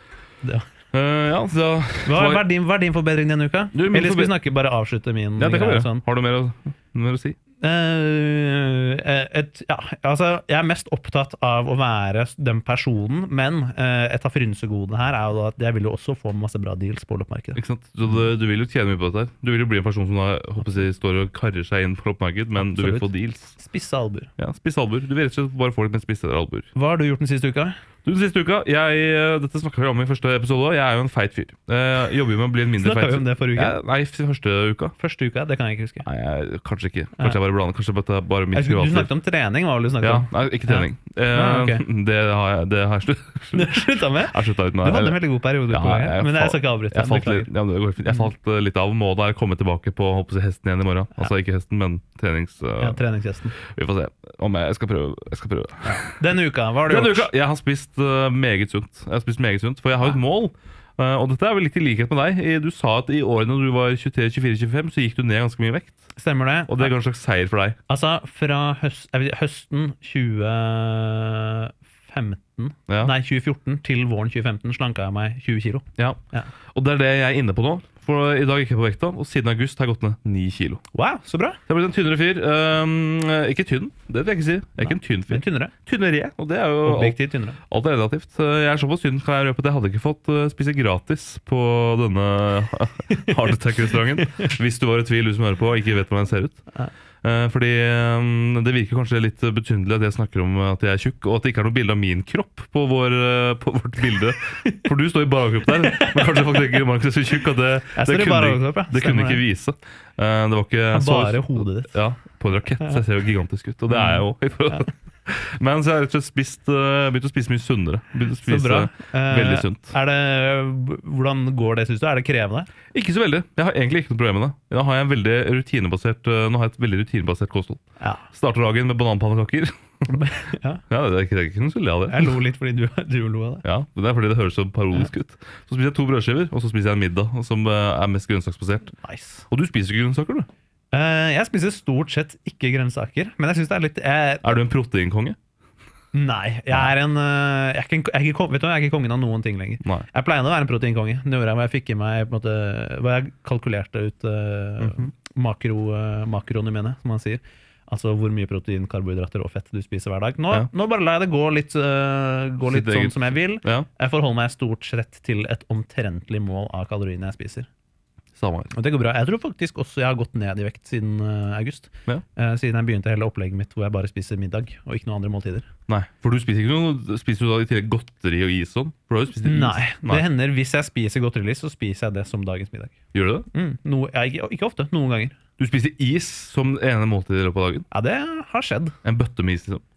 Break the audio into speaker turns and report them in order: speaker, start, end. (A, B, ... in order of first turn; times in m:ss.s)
0:00.9-0:02.4 A
0:02.0-0:06.0 B
0:03.7-0:04.4 A
0:05.4-0:07.4 A
0:07.6-0:17.6 B
0:17.6-0:23.6 A
0:22.6-0:24.3 B
0:24.4-0:26.7 A
0:26.7-0:27.8 B
0:28.0-0:34.9 A
0:32.8-0:33.8 B
0:35.0-0:36.0 B
0:36.0-0:39.1 A
0:38.5-0:41.8 B
0:40.0-0:53.0 A
0:43.5-0:47.5 B
0:52.8-0:53.6 B
0:53.6-0:56.2 A
0:55.8-0:57.3 B
0:56.9-1:06.0 A
1:06.2-1:06.9 B
1:06.7-1:07.8 A
1:07.9-1:16.5 B
1:16.7-1:20.8 A
1:20.9-1:21.6 B
1:21.7-1:36.6 A
1:24.8-1:25.7 B
1:26.8-1:27.6 B
1:34.2-1:34.5 B
1:37.2-1:59.9 A
1:45.9-1:46.2 B
1:47.9-1:49.4 B
1:50.9-1:51.9 B
1:53.9-1:54.8 B
1:58.4-2:02.7 B
2:02.9-2:10.2 A
2:08.0-2:08.2 B
2:10.1-2:10.8 B
2:10.9-2:12.3 A
2:12.1-2:13.6 B
2:13.6-2:18.9 A
2:19.0-2:19.4 B
2:19.5-2:20.5 A
2:20.9-2:24.6 B
2:24.4-2:25.4 A
2:26.1-2:47.7 B
2:34.8-2:35.1 A
2:42.7-2:43.9 A
2:48.4-2:48.7 A
2:48.7-2:55.7 B
2:55.9-3:00.2 A
2:59.4-3:03.0 B
3:03.1-3:03.5 A
3:03.5-3:05.4 B
3:05.6-3:07.9 A
3:07.9-3:08.9 B
3:09.0-3:09.8 A